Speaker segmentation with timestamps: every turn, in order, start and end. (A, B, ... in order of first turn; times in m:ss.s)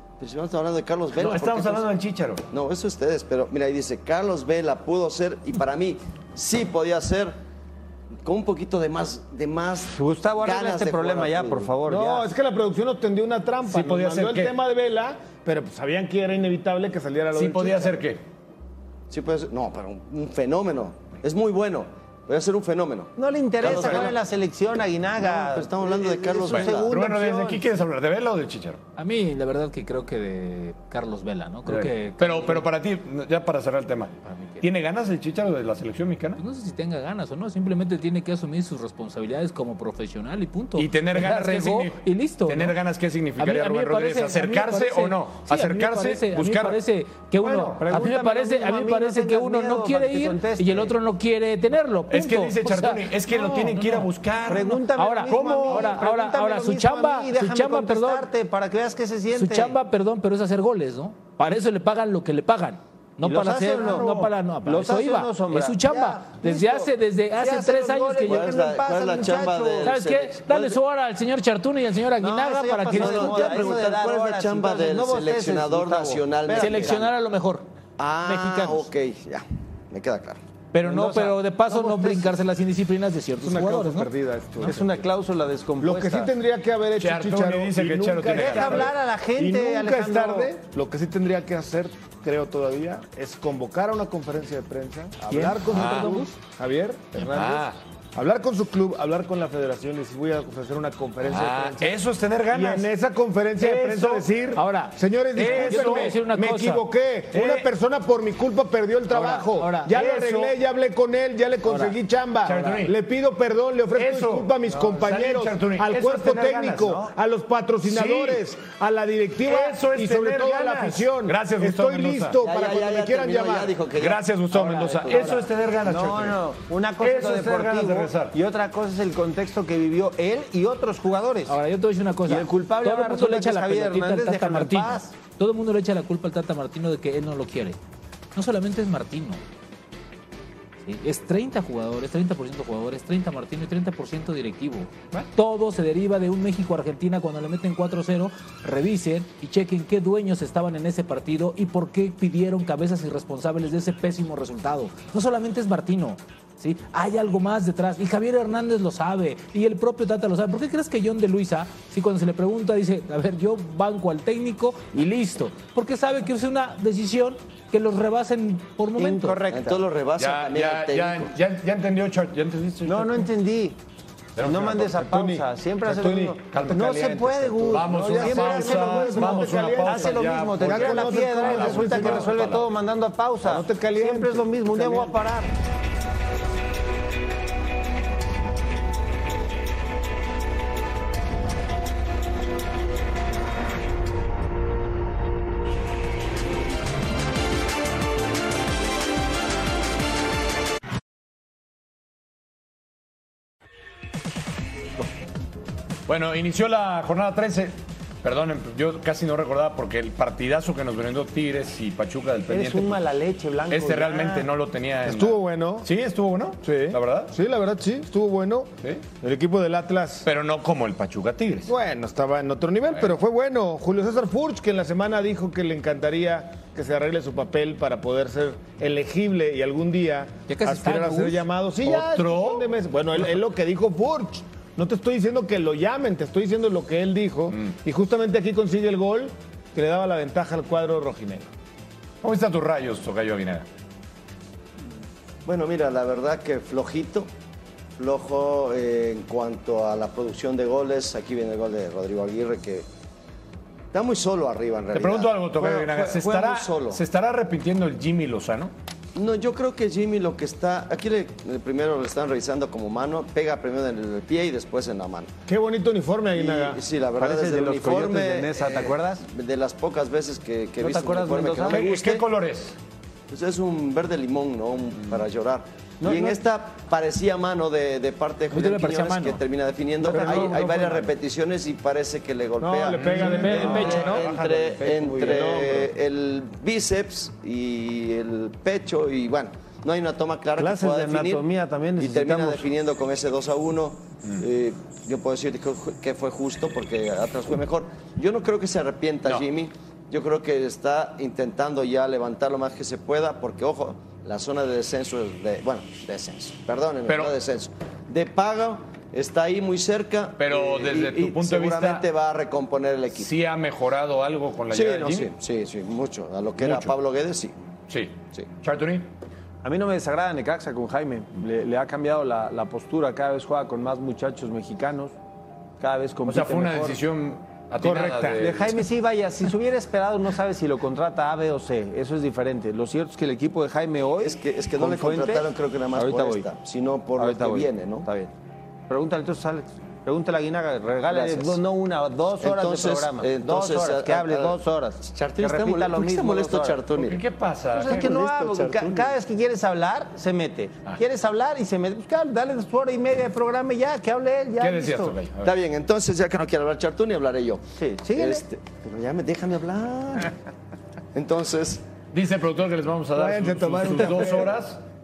0:00.2-0:01.9 A
0:01.2-0:02.4 B
0:02.5-0:07.3 A
0:08.2-0:11.7 A
0:09.9-0:12.3 C
0:11.8-0:18.0 D
0:13.6-0:14.6 B
0:17.3-0:18.2 B
0:19.1-0:24.2 A
0:23.2-0:27.6 C
0:25.2-0:26.9 A
0:26.4-0:28.8 B
0:29.0-0:32.6 E
0:31.7-0:36.4 B
0:34.2-0:34.6 E
0:36.4-0:42.8 E
0:40.8-0:46.8 B
0:43.4-0:58.3 E
0:47.4-0:50.9 C
0:52.1-0:56.0 B
0:54.4-0:59.7 C
0:59.3-1:08.5 E
1:03.2-1:10.0 C
1:08.3-1:10.8 A
1:09.8-1:13.8 E
1:12.2-1:17.0 C
1:12.9-1:17.1 A
1:16.5-1:17.6 E
1:18.0-1:20.4 A
1:18.2-1:18.9 E
1:20.7-1:24.1 E
1:20.8-1:22.4 C
1:23.4-1:25.1 D
1:24.6-1:26.3 C
1:25.8-1:37.6 D
1:27.0-1:28.9 B
1:28.3-1:30.6 C
1:35.3-1:36.3 E
1:35.5-1:36.3 C
1:35.7-1:36.2 B
1:37.1-1:37.8 B
1:38.1-1:42.0 D
1:41.2-1:42.9 B
1:42.5-2:03.8 D
1:43.6-1:44.3 B
1:44.5-1:46.8 E
1:45.3-1:46.2 B
1:47.3-1:47.7 B
1:49.1-1:49.9 E
1:49.9-1:50.5 B
1:51.6-1:51.9 E
1:52.4-1:52.9 B
1:52.5-1:52.8 E
1:53.9-1:57.0 B
1:57.8-1:58.4 B
1:59.4-2:02.4 B
2:02.4-2:04.4 A
2:04.0-2:06.4 B
2:04.5-2:11.6 C
2:05.0-2:05.3 A
2:07.0-2:08.4 B
2:11.5-2:17.8 E
2:12.3-2:15.1 C
2:18.3-2:19.4 E
2:20.8-2:49.4 E
2:49.0-2:49.8 C
2:49.5-2:51.3 A
2:50.2-2:53.3 B
2:52.8-2:53.8 C
2:54.4-2:54.9 B
2:54.4-3:05.5 C
2:54.9-3:02.6 D
2:56.5-2:57.0 B
2:57.6-3:02.7 B
3:03.4-3:05.2 D
3:26.1-3:33.1 B
3:32.5-3:34.4 C
3:33.7-3:37.3 B
3:35.0-3:35.9 D
3:36.6-3:40.3 D
3:40.2-3:41.7 B
3:41.7-4:01.5 D
3:50.5-3:51.4 E
3:51.8-3:53.3 B
4:02.2-4:03.6 B
4:05.4-4:07.3 A
4:08.0-4:12.8 A
4:13.9-4:17.0 A
4:14.9-4:18.7 B
4:19.1-4:25.3 A
4:25.5-4:26.8 D
4:26.3-4:32.3 A
4:27.2-4:29.2 C
4:30.8-4:31.8 C
4:31.7-4:32.8 B
4:33.3-4:51.4 A
4:36.0-4:36.4 C
4:38.5-4:39.4 E
4:40.0-4:41.1 C
4:42.6-4:44.2 D
4:42.9-4:43.5 B
4:43.1-4:45.9 C
4:43.2-4:44.2 E
4:50.6-4:52.7 C
4:52.0-5:13.3 A
5:07.1-5:07.4 B
5:10.4-5:12.0 B
5:13.1-5:15.3 B
5:14.7-5:17.5 A
5:16.6-5:16.9 B
5:17.9-5:19.1 B
5:19.6-5:25.1 C
5:25.8-5:27.0 C
5:26.2-5:28.8 B
5:27.8-5:28.3 D
5:27.9-5:36.4 C
5:34.2-5:38.1 A
5:37.2-5:38.3 C
5:38.9-5:46.8 C
5:41.1-5:41.6 A
5:42.4-5:47.2 A
5:47.0-5:48.2 B
5:47.7-5:55.2 C
5:47.9-5:49.1 A
5:54.6-5:55.5 B
5:55.4-6:00.3 A
5:57.8-5:58.4 C
6:01.1-6:01.8 A
6:02.1-6:04.8 B
6:03.1-6:04.6 D